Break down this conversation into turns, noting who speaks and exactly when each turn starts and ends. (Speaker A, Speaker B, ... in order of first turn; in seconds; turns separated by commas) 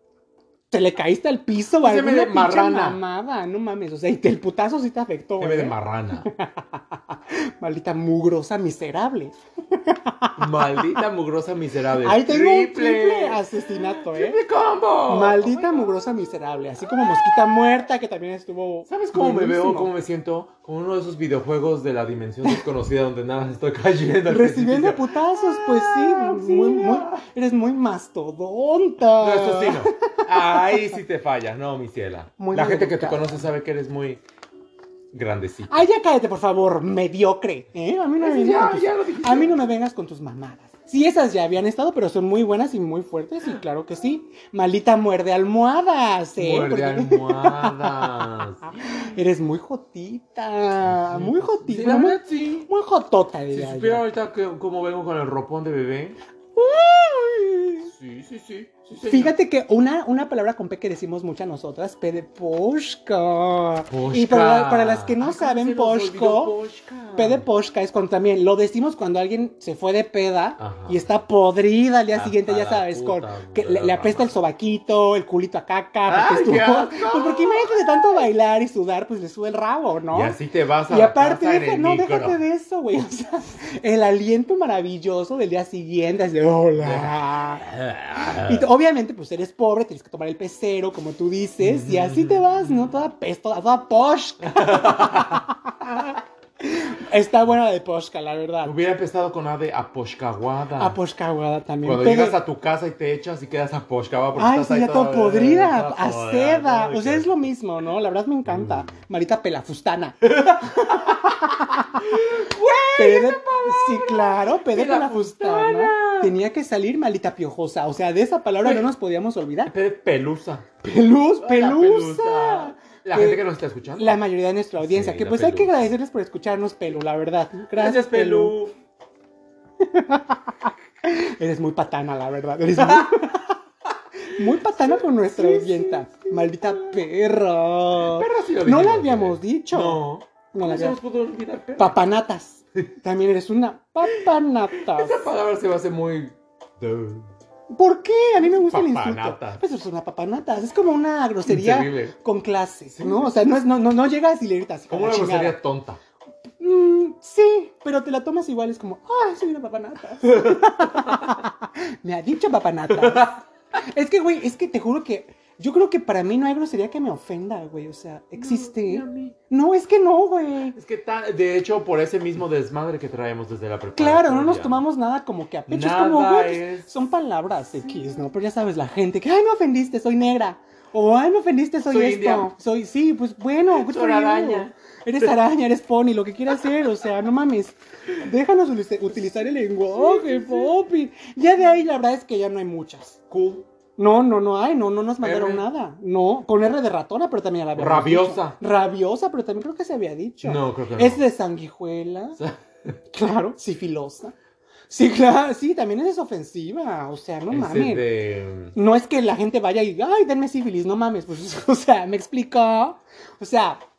Speaker A: 0.7-10.8, Speaker B: 1.8-3.0, Speaker B: 5.4-6.3, Speaker B: 10.4-15.9, Speaker A: 12.0-14.4, Speaker A: 15.1-19.9, Speaker B: 16.9-17.8, Speaker B: 18.9-27.2, Speaker A: 24.3-30.8, Speaker B: 29.2-34.2, Speaker A: 32.4-33.4, Speaker B: 35.1-35.9, Speaker A: 35.7-54.1, Speaker B: 38.2-39.6, Speaker B: 46.4-49.1, Speaker B: 50.9-52.7, Speaker B: 53.5-56.2, Speaker A: 56.6-57.9, Speaker B: 57.8-59.4, Speaker A: 59.0-66.6, Speaker B: 63.9-67.5, Speaker A: 67.1-98.7, Speaker B: 70.6-71.0, Speaker B: 72.1-74.3, Speaker B: 76.1-78.3, Speaker B: 80.1-82.4, Speaker B: 86.8-88.7, Speaker B: 91.6-92.8, Speaker B: 94.4-95.4, Speaker B: 98.6-101.0, Speaker A: 100.8-102.4, Speaker B: 101.8-107.3, Speaker A: 104.3-112.1, Speaker B: 108.5-108.8, Speaker B: 110.4-111.3, Speaker B: 112.0-116.4, Speaker A: 113.0-119.7, Speaker B: 118.6-118.9, Speaker B: 119.7-120.7, Speaker A: 120.8-123.4, Speaker B: 121.4-124.2, Speaker A: 124.0-128.6, Speaker B: 124.8-125.9, Speaker B: 127.7-128.7, Speaker A: 129.8-133.6, Speaker B: 132.8-133.1, Speaker A: 134.3-141.0, Speaker B: 134.4-137.0, Speaker B: 138.0-142.0, Speaker A: 141.8-145.3, Speaker B: 144.0-147.3, Speaker A: 147.7-155.6, Speaker B: 148.4-149.6, Speaker B: 151.5-152.2, Speaker B: 153.0-153.3, Speaker B: 154.9-156.0, Speaker A: 156.6-170.8, Speaker B: 160.3-161.3, Speaker B: 162.9-163.3, Speaker B: 168.4-169.3, Speaker B: 170.8-174.8, Speaker A: 173.9-193.2, Speaker B: 175.7-176.9, Speaker B: 181.9-182.5, Speaker B: 183.7-185.3, Speaker B: 189.9-190.7, Speaker B: 193.3-193.7, Speaker A: 194.0-202.4, Speaker B: 195.2-195.7, Speaker B: 197.8-198.6, Speaker B: 200.4-201.2, Speaker A: 203.1-204.3, Speaker A: 204.9-208.2, Speaker B: 207.5-208.8, Speaker A: 208.7-213.8